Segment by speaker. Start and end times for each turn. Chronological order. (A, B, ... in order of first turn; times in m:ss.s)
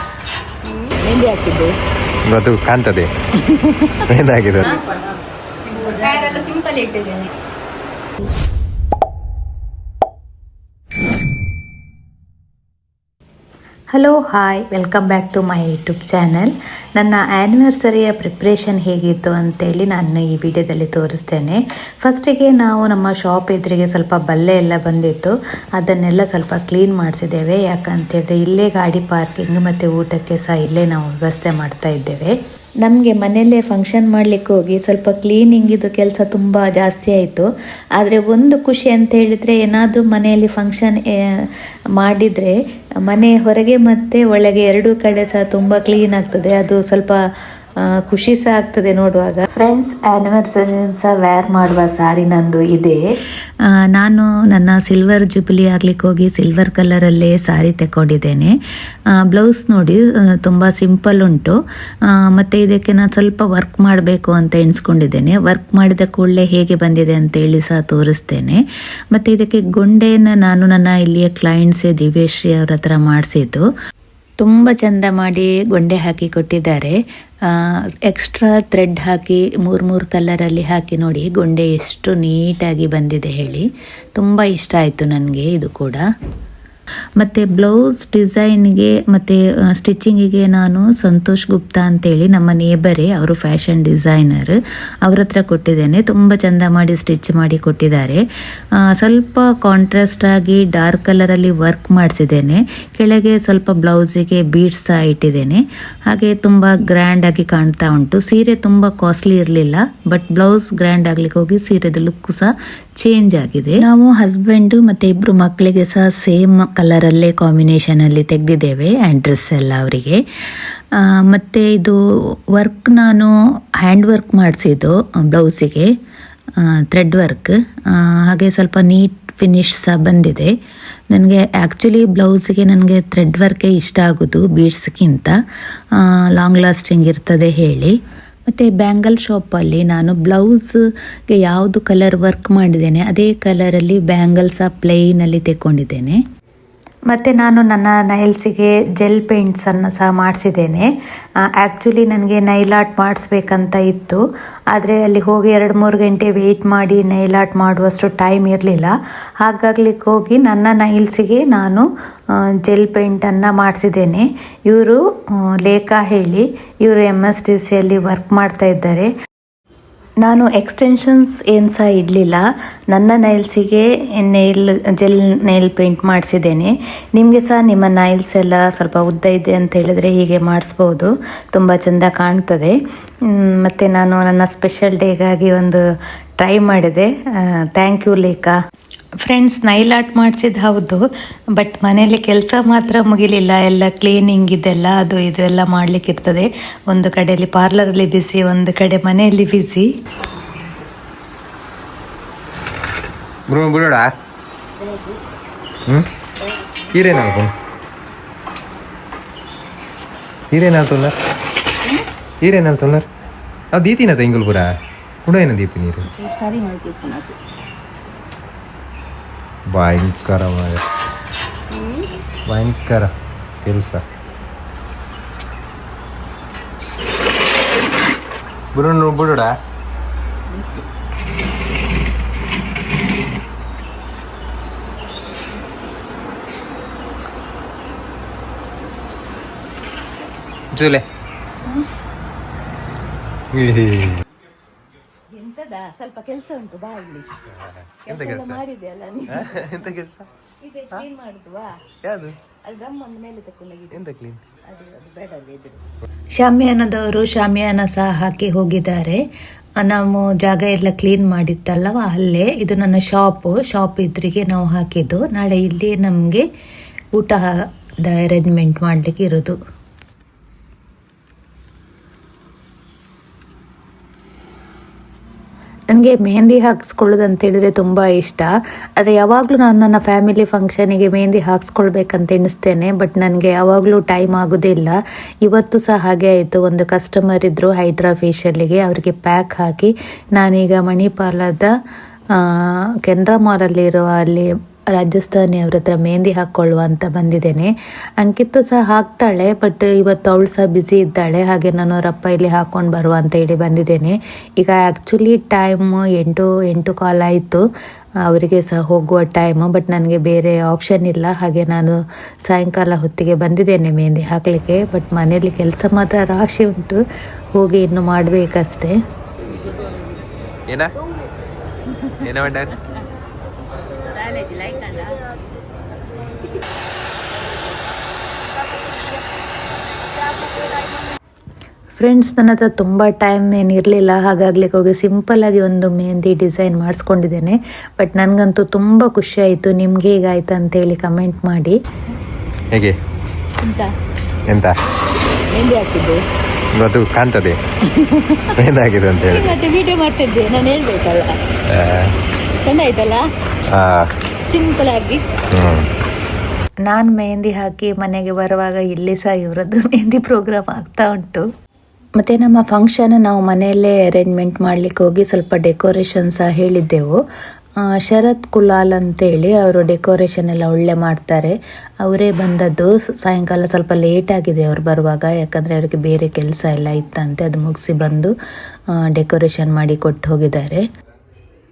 0:00.7-0:01.7 A
0:02.3-0:03.1 B
0:03.4-0:05.0 A
0:04.0-0:04.8 B
0:05.6-0:07.3 A
0:13.9-0:37.4 C
0:38.0-0:42.5 C
0:43.0-0:47.2 C
0:47.8-0:53.0 C
0:53.7-0:58.5 C
0:59.2-1:01.5 C
1:02.2-1:08.6 C
1:09.1-1:13.6 C
1:14.4-1:17.0 C
1:17.5-1:26.0 C
1:27.2-1:38.2 C
1:38.8-2:00.2 C
2:00.9-2:02.0 C
2:02.5-2:05.9 C
2:06.6-2:10.5 C
2:11.1-2:15.3 C
2:16.0-2:17.9 C
2:18.5-2:20.8 C
2:21.3-2:26.2 C
2:27.1-2:30.9 C
2:31.5-2:41.8 C
2:42.6-2:45.0 C
2:45.6-2:49.1 C
2:50.2-3:02.7 C
3:03.3-3:05.8 C
3:06.4-3:08.5 C
3:09.2-3:11.0 C
3:11.6-3:19.9 C
3:20.3-3:20.6 A
3:23.5-3:24.1 B
3:24.8-3:25.2 A
3:26.4-3:27.0 A
3:26.9-3:27.5 B
3:30.5-3:31.1 B
3:32.4-3:33.0 B
3:33.7-3:34.7 B
3:35.2-3:36.0 B
3:36.0-3:37.4 A
3:39.7-3:40.8 B
3:41.7-3:42.1 A
3:42.5-3:43.1 B
3:43.6-3:44.0 B
3:48.7-3:49.5 B
3:50.5-3:50.8 A
4:00.7-4:01.0 B
4:03.5-4:04.1 B
4:05.3-4:07.3 A
4:07.6-4:08.6 B
4:08.0-4:09.8 A
4:09.3-4:10.3 B
4:10.6-4:11.8 A
4:12.1-4:12.3 B
4:12.6-4:14.0 A
4:14.7-4:15.8 A
4:16.3-4:19.2 C
4:19.8-4:26.4 C
4:27.1-4:27.5 C
4:28.0-4:29.6 C
4:35.9-4:38.5 C
4:39.0-4:51.7 C
4:52.4-5:07.6 C
5:08.2-5:11.9 C
5:12.4-5:17.0 C
5:17.5-5:18.9 C
5:20.7-5:20.9 B
5:21.9-5:22.3 A
5:22.2-5:22.7 B
5:23.9-5:25.3 A
5:32.0-5:41.8 C
5:43.6-5:43.9 A
5:44.5-5:44.7 B
5:45.5-5:46.2 A
5:46.8-5:47.6 B
5:47.9-5:48.5 A
5:48.5-5:49.6 B
5:49.2-5:51.4 A
5:51.7-5:52.1 B
5:52.6-5:53.2 A
5:53.7-5:54.0 B
5:54.5-5:55.2 A
5:55.5-5:55.8 B
5:56.9-6:01.4 C
6:02.2-6:07.2 C
6:08.0-6:18.3 C
6:19.0-6:20.8 C